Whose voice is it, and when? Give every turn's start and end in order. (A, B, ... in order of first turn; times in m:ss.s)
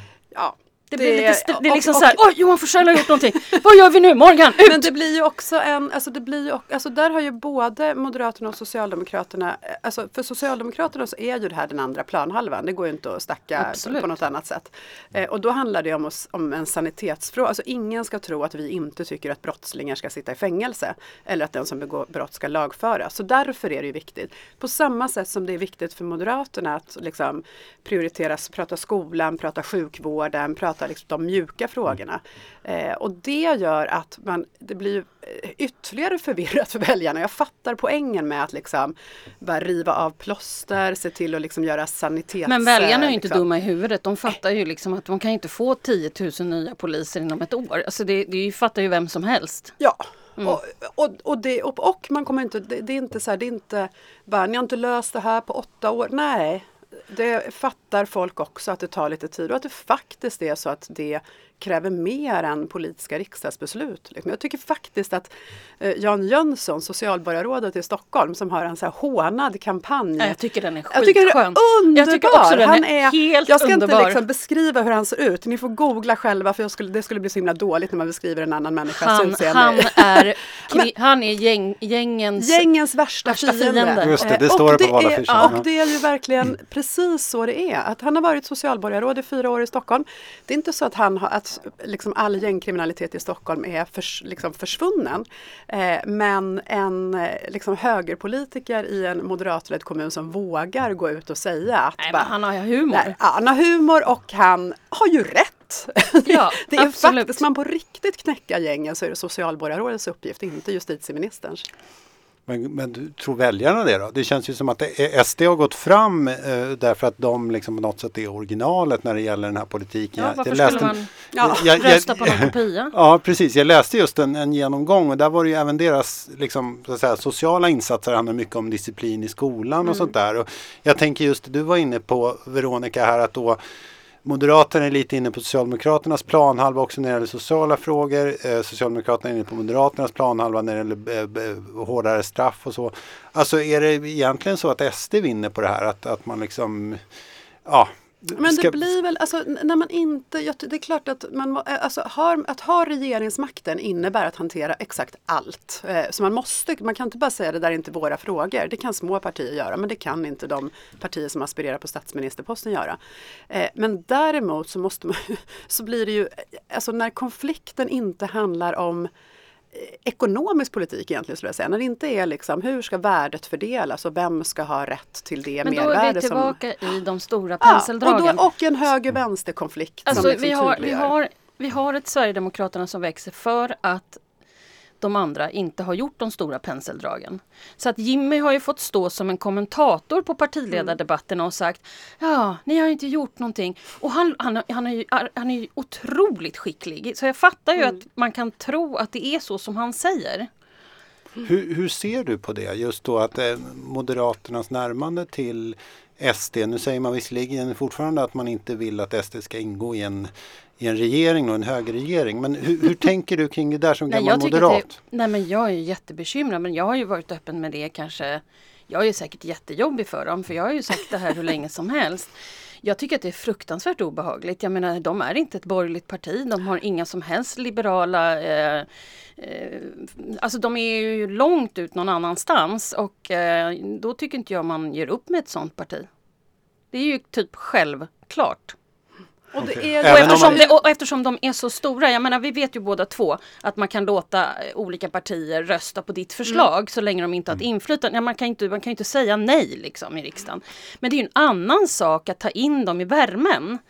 0:00.3-0:02.2 A
0:00.9-0:04.9 B
0:04.6-0:43.4 A
0:13.6-0:14.1 B
0:42.5-0:49.8 B
0:49.8-1:10.4 A
1:10.2-1:14.2 B
1:10.9-1:20.9 A
1:19.0-1:22.7 B
1:22.4-1:42.3 A
1:23.3-1:24.3 B
1:24.0-1:25.7 C
1:42.0-1:43.2 B
1:42.9-1:51.7 A
1:46.3-1:47.4 B
1:52.5-2:13.6 C
2:00.2-2:02.9 B
2:01.3-2:01.7 A
2:14.2-2:27.0 C
2:27.6-2:28.8 C
2:28.4-2:43.0 A
2:43.5-2:49.1 A
2:49.7-2:56.6 A
2:55.6-2:58.4 B
2:57.6-3:01.1 A
3:00.1-3:04.2 B
3:05.0-3:20.5 B
3:21.4-3:34.9 C
3:34.1-3:42.3 B
3:42.8-3:56.1 B
3:56.9-3:58.8 B
3:59.5-4:00.8 A
3:59.6-4:00.6 C
4:00.0-4:13.8 B